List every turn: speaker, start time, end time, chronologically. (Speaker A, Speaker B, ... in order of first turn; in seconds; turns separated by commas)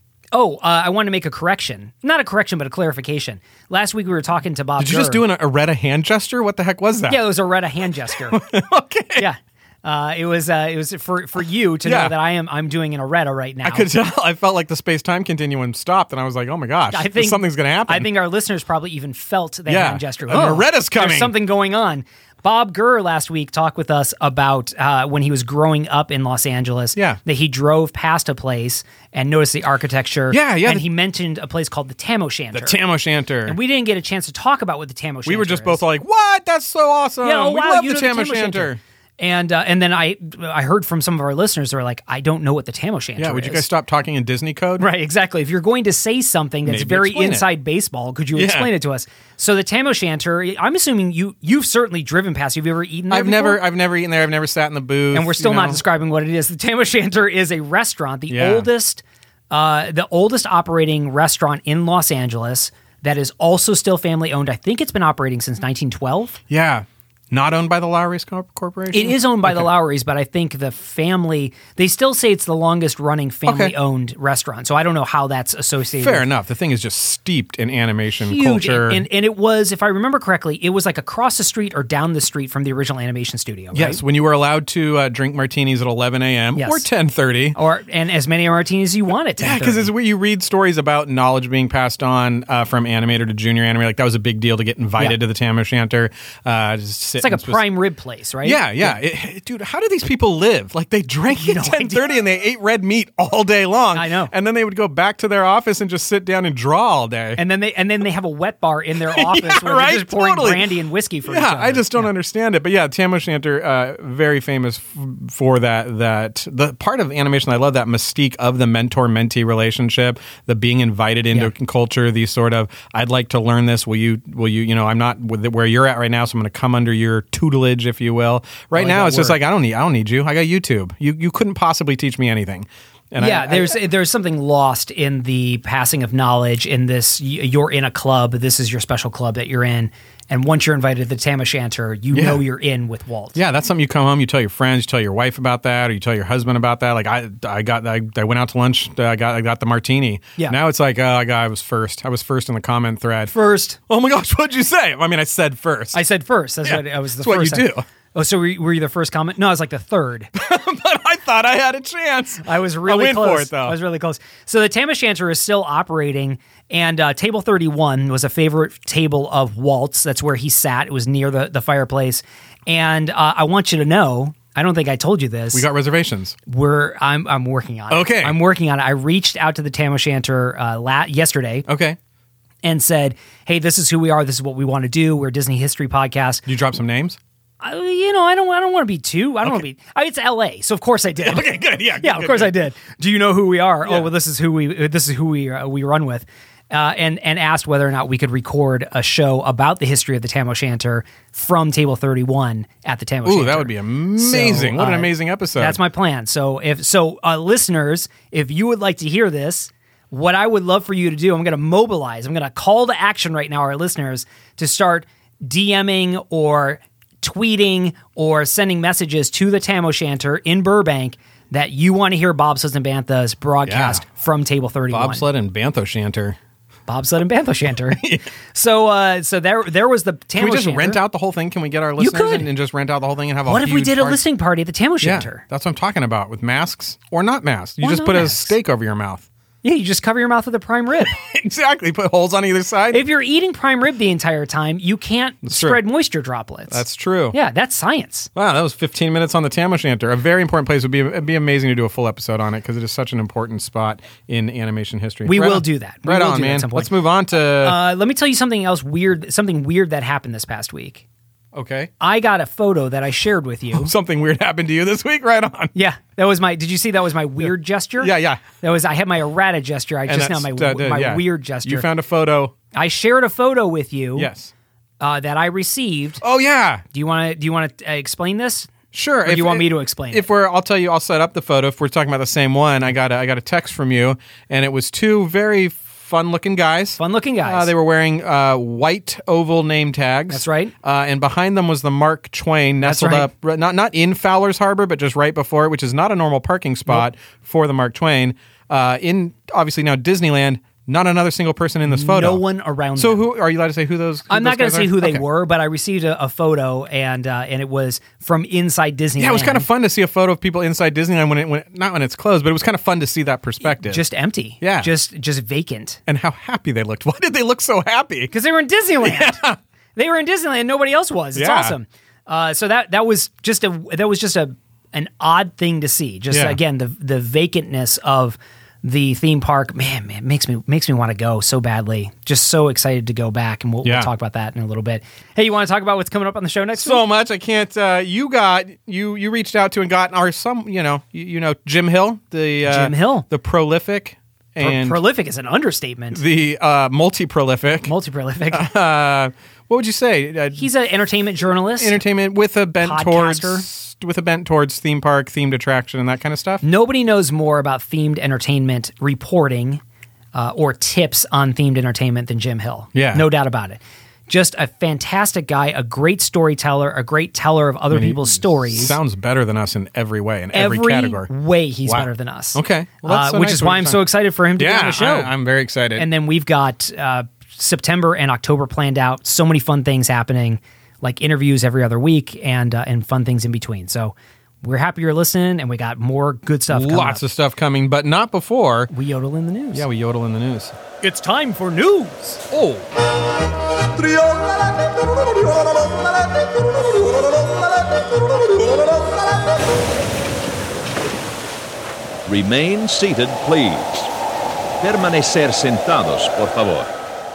Speaker A: 0.3-5.2, Speaker B: 4.8-7.2, Speaker A: 7.1-8.4, Speaker B: 8.3-9.3, Speaker A: 9.2-13.9, Speaker B: 11.8-12.2, Speaker B: 13.6-18.1, Speaker A: 16.9-32.8, Speaker B: 19.7-21.3, Speaker B: 26.9-27.2, Speaker B: 30.3-30.9, Speaker B: 32.5-33.6, Speaker A: 33.5-35.8, Speaker B: 35.2-38.8, Speaker A: 37.2-43.7, Speaker B: 43.2-44.9, Speaker A: 44.8-53.6, Speaker B: 46.6-47.5, Speaker B: 48.4-48.7, Speaker B: 53.1-55.8, Speaker A: 55.1-66.4, Speaker B: 58.3-58.7, Speaker B: 66.5-69.7, Speaker A: 68.9-76.3, Speaker B: 73.5-73.8, Speaker B: 76.0-79.1, Speaker A: 78.2-84.0, Speaker B: 83.7-87.6, Speaker A: 86.6-86.9, Speaker A: 87.5-89.9, Speaker B: 89.4-97.7, Speaker A: 97.2-99.0, Speaker B: 98.4-107.4, Speaker A: 101.3-102.1, Speaker A: 103.9-104.3, Speaker A: 107.4-112.1, Speaker B: 109.1-110.7, Speaker B: 111.3-133.8, Speaker A: 128.7-129.4, Speaker A: 133.2-143.4, Speaker B: 142.1-142.4, Speaker B: 143.3-153.3, Speaker A: 153.3-153.8, Speaker B: 153.9-156.0, Speaker A: 155.9-160.3, Speaker B: 156.6-157.8, Speaker B: 160.3-163.8, Speaker A: 162.4-175.7, Speaker B: 175.5-176.4, Speaker A: 176.5-181.7, Speaker B: 177.9-178.4, Speaker B: 181.7-182.0, Speaker A: 182.6-186.4, Speaker B: 186.5-187.2, Speaker A: 187.6-225.3, Speaker B: 191.2-192.6, Speaker B: 203.2-205.8, Speaker B: 223.7-224.0, Speaker B: 224.9-226.4, Speaker A: 226.9-231.0, Speaker B: 227.9-228.3, Speaker B: 230.4-234.2, Speaker A: 232.0-232.5, Speaker A: 233.5-235.4, Speaker B: 235.0-239.3, Speaker A: 237.8-238.6, Speaker A: 239.6-241.2, Speaker B: 241.0-243.0, Speaker A: 242.9-248.3, Speaker B: 245.4-245.8, Speaker B: 246.7-247.4, Speaker B: 248.3-257.8, Speaker A: 255.3-256.9, Speaker A: 257.6-261.0, Speaker B: 261.5-261.9, Speaker A: 262.0-263.9, Speaker B: 263.7-265.7, Speaker A: 265.8-271.9, Speaker B: 268.0-268.4, Speaker B: 270.1-272.5, Speaker A: 272.7-274.3, Speaker B: 274.1-274.5, Speaker A: 275.0-276.2, Speaker B: 276.2-276.9, Speaker A: 276.9-278.7, Speaker B: 278.9-302.4, Speaker A: 279.2-280.3, Speaker A: 287.0-287.7, Speaker A: 290.3-290.7, Speaker A: 292.8-293.3, Speaker A: 301.9-303.3, Speaker B: 303.0-305.2, Speaker A: 304.3-309.7, Speaker B: 309.2-314.0, Speaker A: 313.8-316.0, Speaker B: 314.6-314.9, Speaker B: 316.1-318.3, Speaker A: 318.3-319.4, Speaker B: 319.0-319.6, Speaker A: 320.0-337.0, Speaker B: 321.4-321.8, Speaker B: 326.3-326.6, Speaker B: 333.8-334.1, Speaker B: 336.8-345.0, Speaker A: 342.6-343.3, Speaker A: 344.6-346.2, Speaker B: 346.1-347.9, Speaker A: 347.9-348.7, Speaker B: 348.5-350.7, Speaker A: 350.6-352.0, Speaker B: 351.8-356.6, Speaker A: 352.8-353.6, Speaker A: 356.6-359.8, Speaker A: 360.3-369.0, Speaker B: 362.9-363.2, Speaker B: 367.9-371.3, Speaker A: 370.5-375.3, Speaker B: 371.9-374.1, Speaker B: 374.6-376.1, Speaker A: 376.0-387.2, Speaker B: 386.7-388.9, Speaker A: 388.9-389.9, Speaker B: 389.7-390.8, Speaker A: 391.0-392.4, Speaker B: 392.5-392.9, Speaker C: 402.3-404.1, Speaker C: 404.8-406.9